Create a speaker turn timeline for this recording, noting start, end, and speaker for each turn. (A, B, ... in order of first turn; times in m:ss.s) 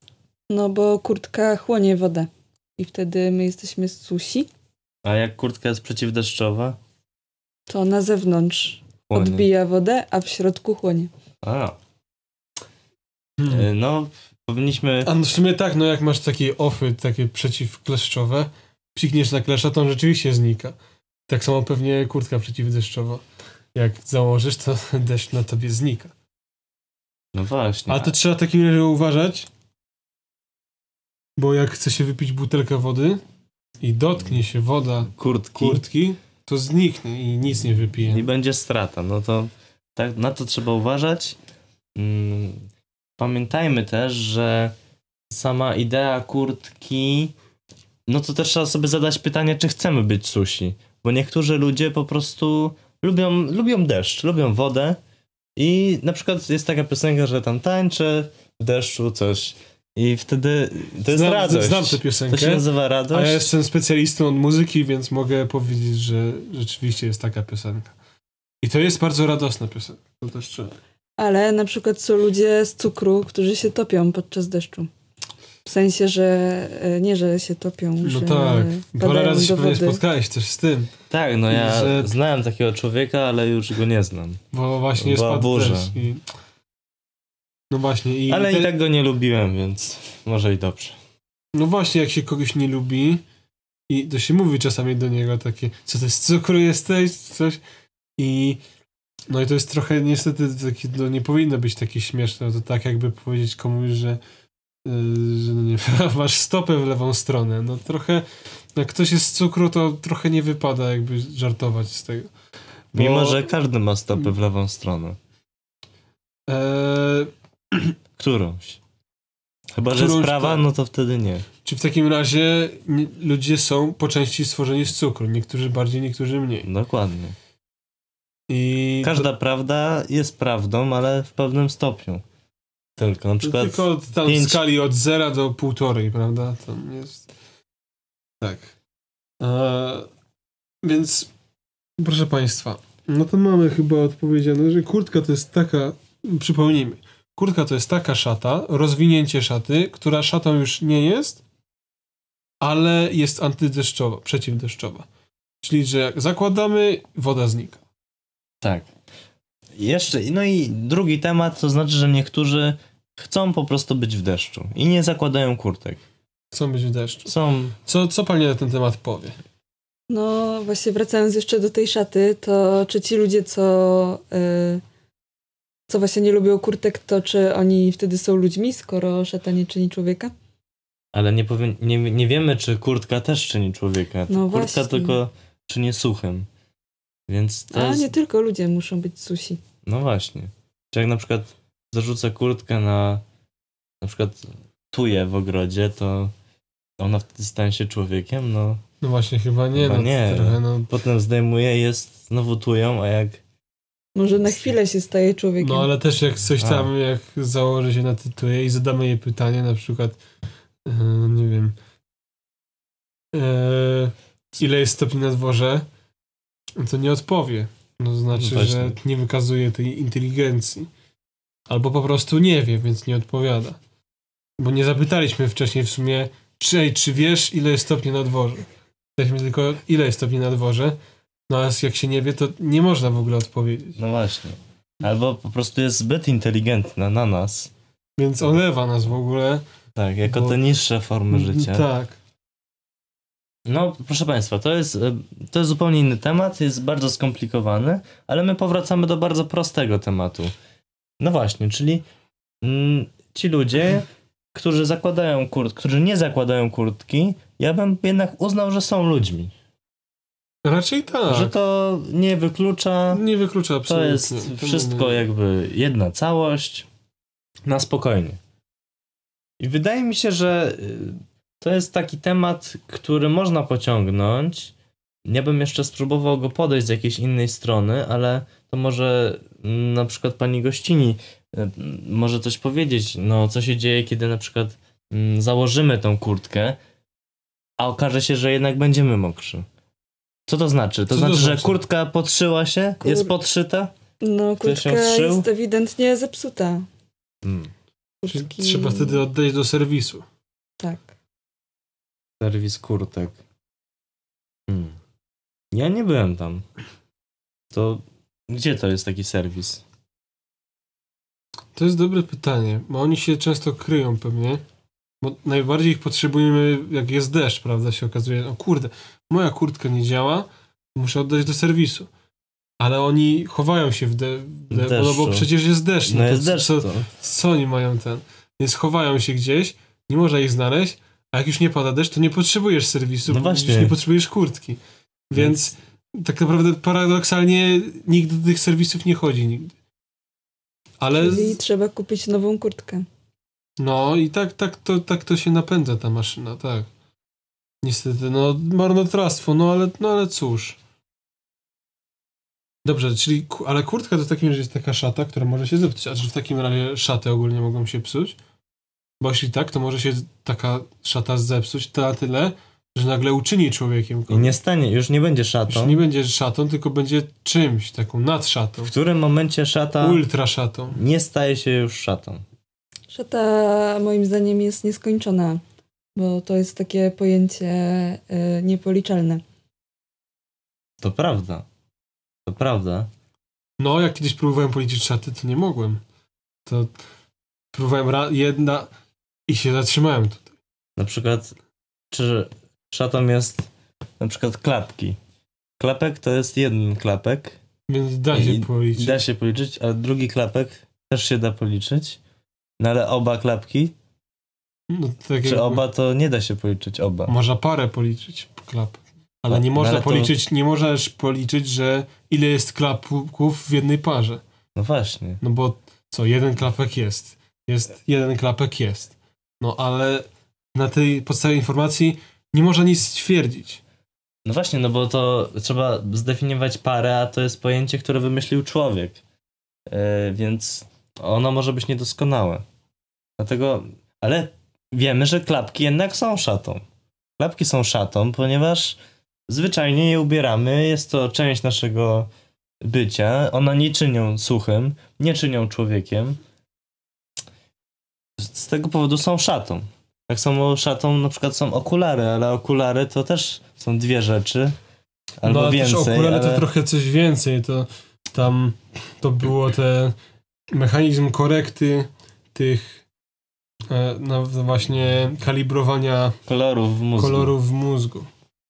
0:00.5-0:04.5 A
0:05.0-0:06.8 B
0:07.7-0:11.1 A
0:09.1-0:09.5 B
0:11.4-0:11.8 B
0:13.4-0:13.7 C
0:13.5-0:15.1 B
0:15.0-0:20.8 C
0:21.3-0:23.2 C
0:23.7-0:26.1 C
0:27.3-0:28.1 B
0:27.9-0:29.5 C
0:31.4-0:33.2 C
0:33.8-0:38.3 C
0:35.1-0:35.8 B
0:38.0-0:41.4 B
0:42.0-0:42.7 B
0:43.2-0:44.7 B
0:45.3-0:47.3 B
0:48.1-0:55.0 B
0:55.6-1:03.5 B
1:01.1-1:08.0 C
1:08.6-1:10.8 C
1:11.2-1:14.9 A
1:15.6-1:20.0 A
1:18.0-1:20.9 C
1:21.1-1:24.4 B
1:21.5-1:22.1 C
1:24.5-1:26.2 C
1:25.0-1:26.0 B
1:27.7-1:28.7 C
1:28.3-1:31.0 B
1:31.5-1:33.2 C
1:33.9-1:37.6 C
1:38.2-1:38.6 C
1:39.3-1:44.2 C
1:44.8-1:52.3 C
1:52.9-1:53.4 C
1:53.0-1:55.2 B
1:56.5-1:57.9 C
1:58.2-1:58.8 B
1:59.8-2:01.5 B
1:59.9-2:00.6 C
2:01.6-2:06.7 C
2:06.6-2:07.4 B
2:08.5-2:09.3 C
2:09.0-2:12.2 B
2:13.0-2:14.6 B
2:13.4-2:17.3 C
2:18.4-2:18.7 C
2:19.4-2:20.1 C
2:20.8-2:21.3 C
2:22.0-2:31.4 C
2:32.6-2:35.1 C
2:35.6-2:37.8 C
2:38.6-2:38.9 B
2:39.8-2:46.0 B
2:46.5-2:47.3 C
2:47.3-2:47.8 B
2:47.8-2:49.4 C
2:50.1-2:54.8 A
2:55.9-3:00.3 A
3:01.1-3:06.5 B
3:04.3-3:05.2 A
3:07.3-3:08.1 B
3:07.7-3:09.6 A
3:09.8-3:13.2 B
3:14.0-3:16.3 B
3:17.0-3:18.8 B
3:19.0-3:20.9 C
3:19.8-3:23.4 B
3:24.2-3:25.9 A
3:24.5-3:24.8 C
3:25.6-3:30.2 C
3:26.6-3:26.9 B
3:30.9-3:31.8 C
3:33.3-3:35.9 C
3:36.8-3:40.9 C
3:38.3-3:39.0 B
3:41.7-3:43.8 C
3:44.6-3:48.7 C
3:49.2-3:51.0 C
3:51.5-3:54.0 C
3:54.0-3:57.7 B
3:58.2-3:59.6 C
4:00.0-4:01.9 B
4:00.3-4:00.6 C
4:01.3-4:02.2 C
4:03.7-4:10.5 B
4:11.2-4:12.0 B
4:12.6-4:19.5 B
4:20.6-4:21.5 C
4:21.3-4:23.2 B
4:23.1-4:25.2 C
4:23.9-4:26.9 B
4:27.7-4:28.4 B
4:29.6-4:34.7 B
4:35.3-4:46.8 B
4:47.8-4:49.7 B
4:50.5-4:53.9 B
4:51.1-4:51.8 C
4:53.0-4:53.3 A
4:54.2-4:56.9 A
4:54.6-4:55.5 B
4:57.4-4:57.7 B
4:58.2-4:59.2 A
4:58.3-5:00.2 C
5:00.8-5:01.1 A
5:02.4-5:03.4 B
5:04.7-5:05.0 B
5:05.7-5:06.6 B
5:07.7-5:09.8 B
5:11.8-5:14.6 C
5:15.2-5:22.1 C
5:22.8-5:39.7 C
5:24.7-5:25.5 B
5:26.1-5:27.1 B
5:33.3-5:34.0 B
5:41.0-5:41.6 C
5:41.2-5:43.1 A
5:43.8-5:46.9 C
5:47.8-5:50.8 C
5:52.8-5:58.4 C
5:59.2-6:04.6 C
6:04.3-6:06.0 B
6:05.7-6:08.9 C
6:08.9-6:10.2 B
6:10.0-6:11.0 C
6:10.9-6:12.4 B
6:13.1-6:15.6 A
6:16.2-6:19.4 A
6:21.0-6:21.6 B
6:22.5-6:23.1 B
6:23.8-6:26.0 C
6:26.7-6:26.9 C
6:27.7-6:28.9 C
6:29.5-6:30.5 C
6:31.0-6:31.6 B
6:32.1-6:33.7 B
6:34.2-6:35.2 B
6:35.8-6:37.6 B
6:37.9-6:39.2 C
6:38.3-6:42.2 B
6:42.8-6:43.9 B
6:44.9-6:45.8 C
6:45.4-6:47.3 B
6:47.3-6:54.4 C
6:49.5-6:50.3 B
6:54.8-6:55.4 B
6:55.4-7:03.8 C
7:04.5-7:09.2 B
7:09.9-7:12.6 B
7:13.4-7:16.8 B
7:17.4-7:22.3 B
7:22.8-7:26.4 B
7:28.4-7:34.8 B
7:35.4-7:36.7 B
7:35.4-7:40.2 C
7:40.7-7:43.0 C
7:43.9-7:46.4 C
7:46.5-7:47.5 B
7:47.2-7:48.3 C